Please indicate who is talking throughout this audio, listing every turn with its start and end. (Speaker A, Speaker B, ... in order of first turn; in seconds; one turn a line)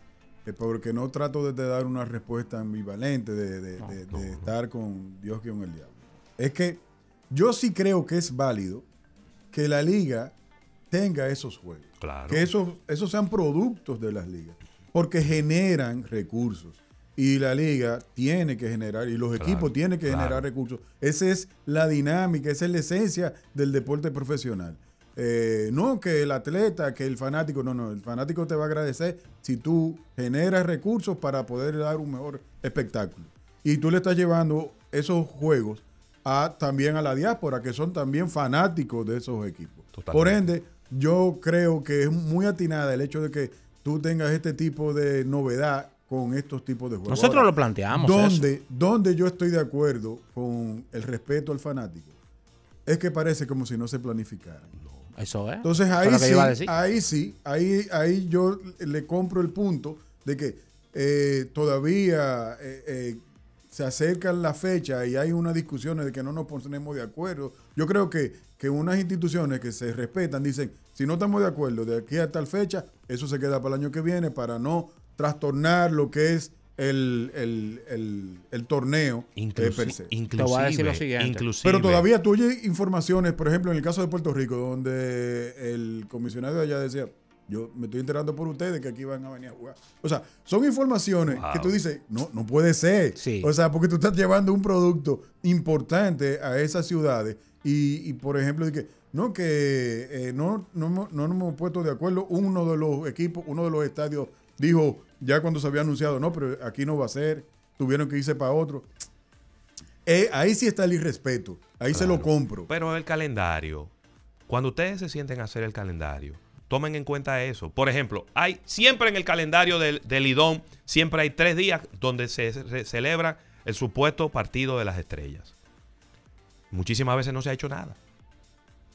Speaker A: 0.5-8.9
Speaker B: 4.1-4.5
Speaker A: 9.5-10.3
Speaker A: 10.9-52.1
Speaker B: 12.0-12.5
Speaker B: 19.4-20.5
Speaker B: 39.9-40.4
Speaker C: 47.1-48.5
Speaker A: 52.9-54.7
Speaker B: 54.8-55.1
Speaker C: 55.1-56.7
Speaker A: 55.6-80.1
Speaker B: 79.4-82.1
Speaker C: 80.3-81.5
Speaker A: 81.6-108.9
Speaker B: 91.4-91.8
Speaker C: 93.2-93.5
Speaker A: 110.1-112.7
Speaker B: 111.9-113.9
Speaker B: 114.5-125.6
Speaker B: 126.7-128.0